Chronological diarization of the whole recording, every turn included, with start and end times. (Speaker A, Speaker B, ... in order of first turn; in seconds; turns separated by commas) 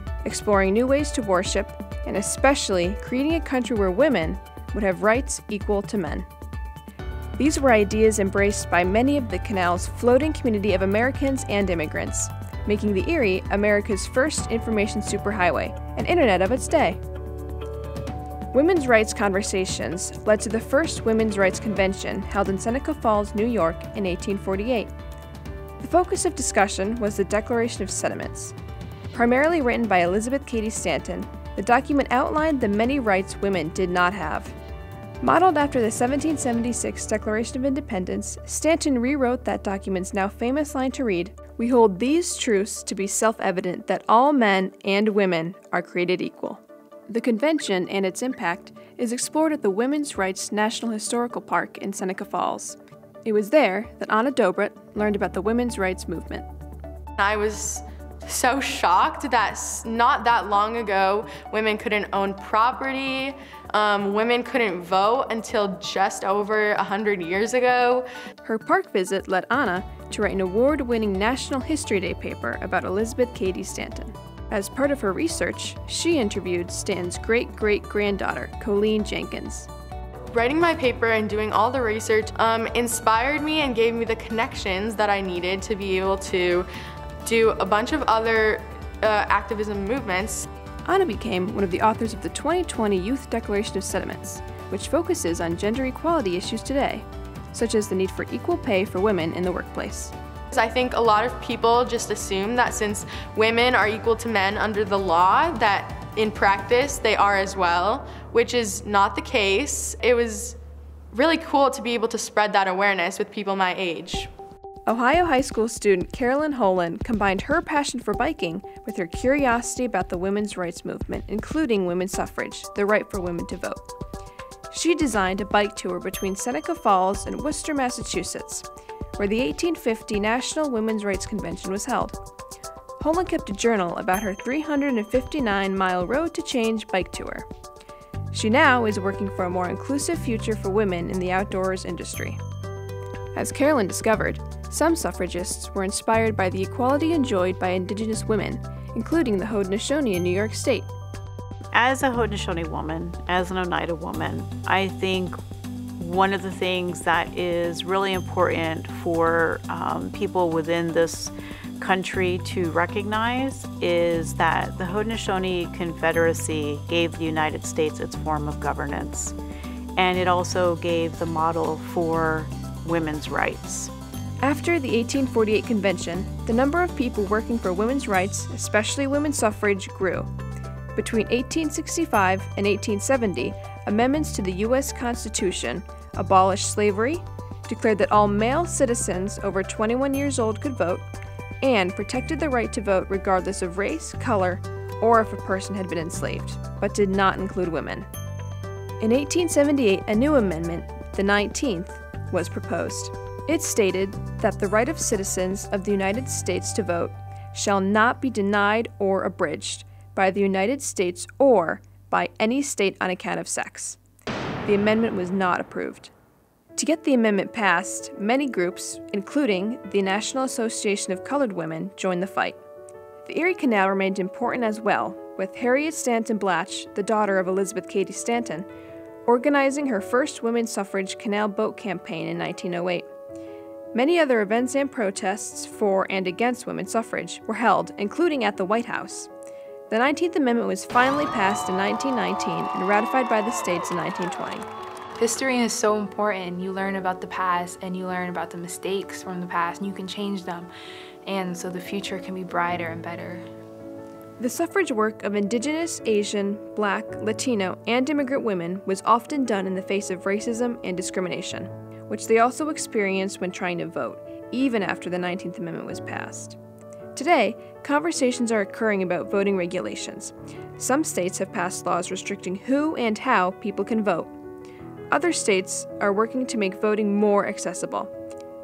Speaker A: 0.2-6.3, Speaker A: 7.4-17.0, Speaker A: 18.5-24.9, Speaker A: 25.8-28.5, Speaker A: 29.1-34.5, Speaker A: 35.2-56.5, Speaker B: 57.2-68.0, Speaker A: 68.4-79.7, Speaker B: 80.3-86.6, Speaker B: 87.2-90.4, Speaker A: 90.8-100.1, Speaker B: 100.5-110.5, Speaker B: 111.1-114.3, Speaker A: 114.9-123.8, Speaker A: 124.7-128.7, Speaker A: 129.2-132.2, Speaker A: 133.0-137.4, Speaker A: 138.3-142.4, Speaker A: 143.3-150.9, Speaker C: 151.7-155.4, Speaker C: 156.0-169.3, Speaker C: 169.9-173.9, Speaker A: 174.4-180.3, Speaker A: 180.9-191.1, Speaker A: 191.6-198.1, Speaker A: 199.0-214.0, Speaker A: 214.6-216.1, Speaker A: 216.8-222.6, Speaker A: 223.2-228.7, Speaker A: 229.2-233.1, Speaker A: 233.9-239.3, Speaker A: 239.9-244.7, Speaker D: 245.2-250.7, Speaker D: 251.2-253.4, Speaker A: 254.4-266.6, Speaker A: 267.1-274.3, Speaker A: 275.1-278.1